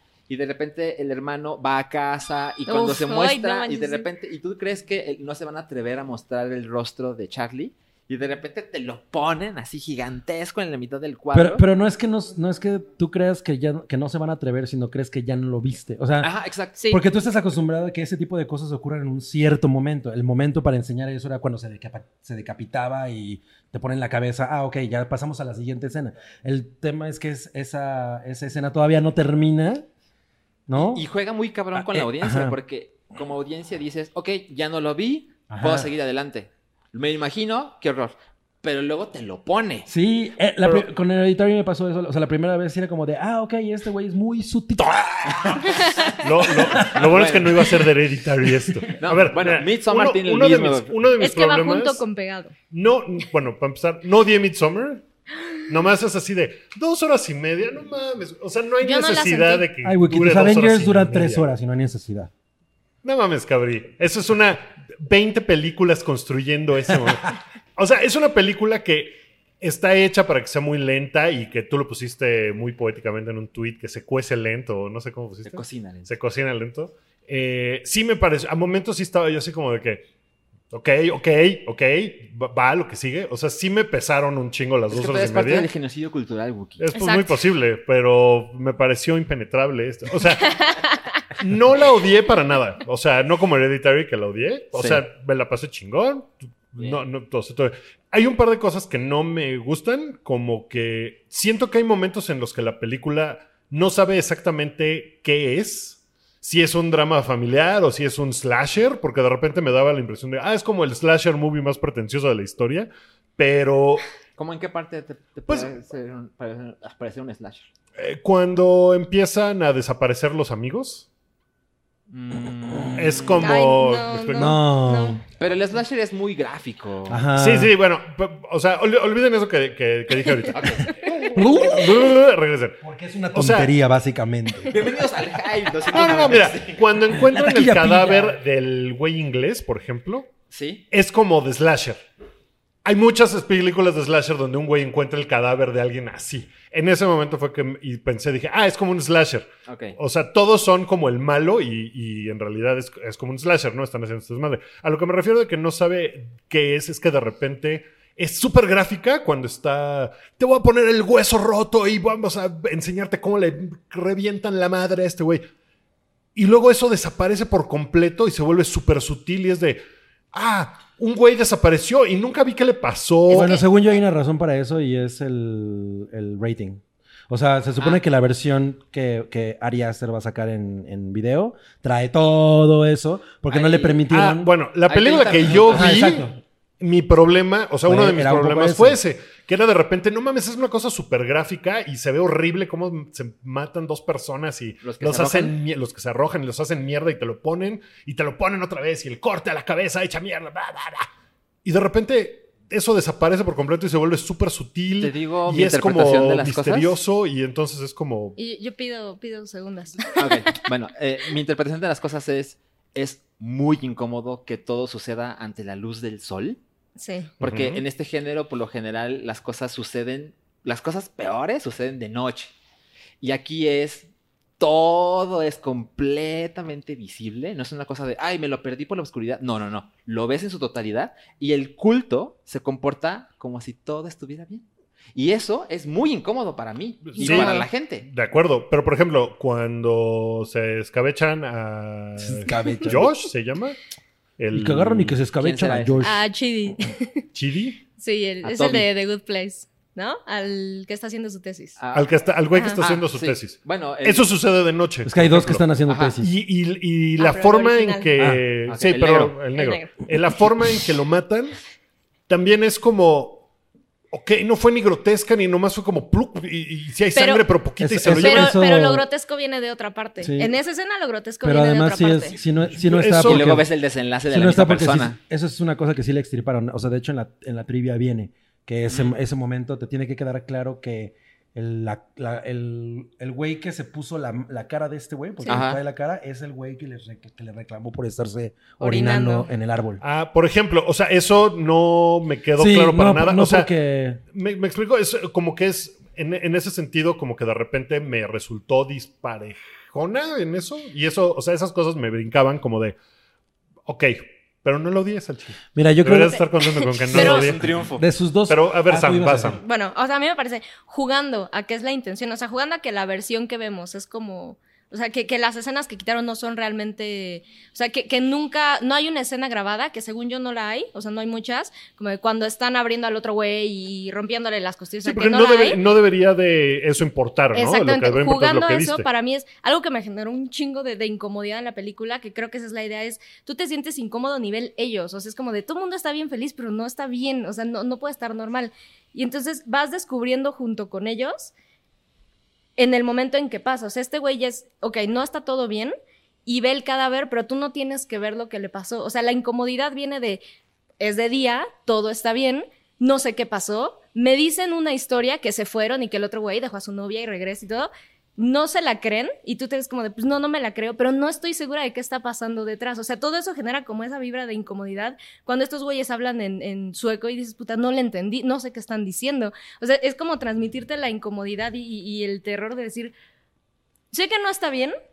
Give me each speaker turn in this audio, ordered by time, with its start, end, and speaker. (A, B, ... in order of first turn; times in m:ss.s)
0:00.3-0:11.6 A
0:02.7-0:04.1 B
0:11.3-0:29.8 C
0:16.2-0:16.8 A
0:30.7-0:31.0 C
0:30.7-0:39.9 A
0:31.7-0:32.6 C
0:35.5-0:35.9 C
0:39.9-0:47.7 C
0:45.7-0:46.2 B
0:46.2-0:52.0 D
0:46.8-0:47.7 A
0:49.0-0:51.0 A
0:51.2-0:52.5 B
0:52.7-0:55.0 D
0:55.7-1:01.5 D
0:58.8-0:59.7 B
0:59.8-1:02.3 C
1:03.0-1:20.0 D
1:15.4-1:16.1 A
1:20.7-1:25.7 D
1:24.9-1:26.8 A
1:26.8-1:30.6 D
1:26.9-1:27.4 B
1:30.5-1:30.9 B
1:31.4-1:54.0 D
1:34.7-1:35.0 A
1:54.4-1:57.7 A
1:58.0-2:01.0 D
2:02.1-2:03.3 A
2:02.9-2:04.6 D
2:03.4-2:05.2 B
2:04.4-2:05.2 C
2:05.4-2:07.2 A
2:07.1-2:07.7 C
2:07.4-2:12.8 D
2:10.5-2:11.1 A
2:11.3-2:12.1 C
2:12.8-2:14.8 C
2:13.3-2:13.7 D
2:14.7-2:16.8 A
2:15.9-2:20.3 D
2:17.1-2:18.4 C
2:20.5-2:20.8 A
2:20.9-2:22.0 D
2:22.8-2:45.4 D
2:29.7-2:30.0 A
2:46.4-2:49.8 D
2:50.3-2:53.6 D
2:53.3-3:04.5 C
2:53.3-2:53.6 B
3:03.5-3:04.0 A
3:04.1-3:06.3 D
3:04.9-3:06.0 A
3:05.6-3:06.4 C
3:06.8-3:21.0 D
3:07.8-3:09.0 C
3:14.8-3:15.5 A
3:21.6-3:28.4 D
3:25.0-3:27.0 A
3:28.4-3:30.3 B
3:30.1-3:36.6 A
3:37.0-3:37.3 B
3:37.4-3:37.8 D
3:37.4-3:42.5 A
3:43.2-3:58.0 A
3:57.1-4:03.8 D
3:57.2-3:57.7 B
4:02.2-4:03.3 C
4:04.4-4:05.2 D
4:04.5-4:06.2 C
4:05.4-4:06.2 A
4:06.0-4:07.2 B
4:07.3-4:07.8 D
4:08.0-4:11.8 B
4:08.4-4:08.9 A
4:11.8-4:12.1 A
4:11.9-4:15.6 D
4:12.5-4:12.8 B
4:12.8-4:14.2 A
4:15.0-4:16.3 C
4:15.9-4:16.1 A
4:16.2-4:21.6 D
4:17.2-4:18.1 B
4:18.2-4:18.4 C
4:18.7-4:19.4 A
4:19.5-4:19.9 B
4:22.3-4:23.4 D
4:24.1-4:28.6 D
4:27.1-4:27.4 B
4:27.8-4:29.0 C
4:28.1-4:32.4 B
4:30.2-4:30.6 C
4:31.4-4:33.7 C
4:32.7-4:33.5 D
4:33.2-4:35.2 A
4:34.3-4:50.0 C
4:38.9-4:39.1 A
4:45.5-4:45.8 A
4:48.8-4:49.5 B
4:50.0-4:53.7 D
4:52.6-4:54.2 C
4:54.3-5:03.0 D
5:03.9-5:07.6 D
5:05.7-5:06.5 C
5:07.1-5:07.5 B
5:07.1-5:09.6 C
5:07.1-5:08.0 A
5:08.5-5:09.6 D
5:09.6-5:25.8 B
5:25.0-5:29.1 D
5:27.5-5:41.5 B
5:42.8-5:45.9 B
5:46.4-5:50.4 B
5:51.0-6:13.1 B
6:14.1-6:15.0 B